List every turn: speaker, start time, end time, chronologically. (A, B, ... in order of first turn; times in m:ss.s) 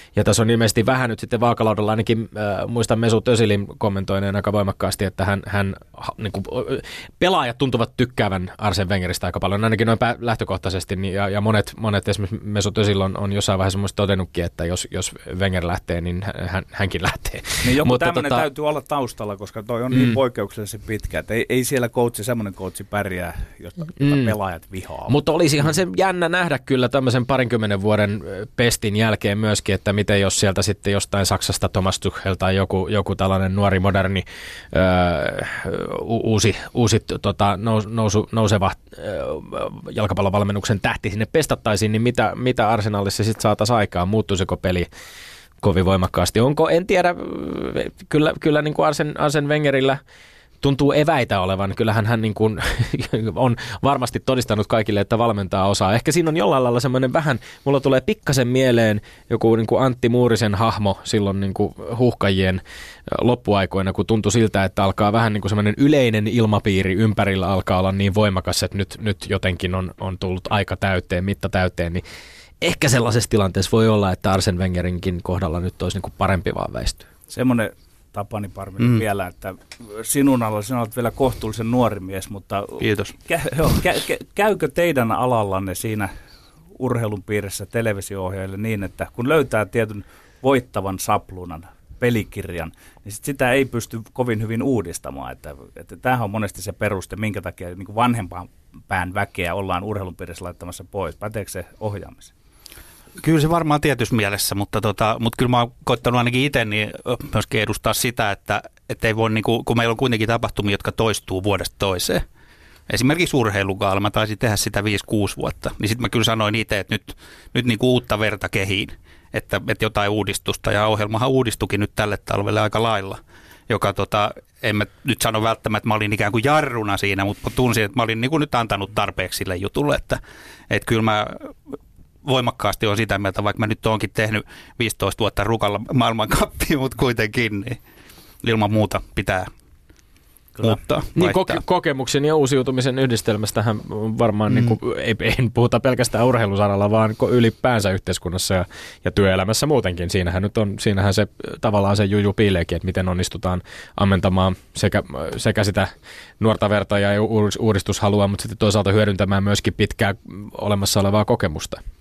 0:00.2-0:18.4 A
0:17.6-0:25.2 B
0:19.9-0:20.2 A
0:24.0-0:24.3 A
0:25.1-0:44.9 A
0:45.6-0:50.0 A
0:50.6-1:12.0 A
1:12.6-1:17.1 A
1:17.3-1:26.1 B
1:22.8-1:23.1 C
1:26.8-1:42.3 B
1:43.2-1:52.2 C
1:52.9-2:11.5 C
2:12.2-2:17.8 C
2:18.4-2:19.5 C
2:20.6-2:21.6 C
2:21.2-2:41.8 A
2:24.5-2:24.7 C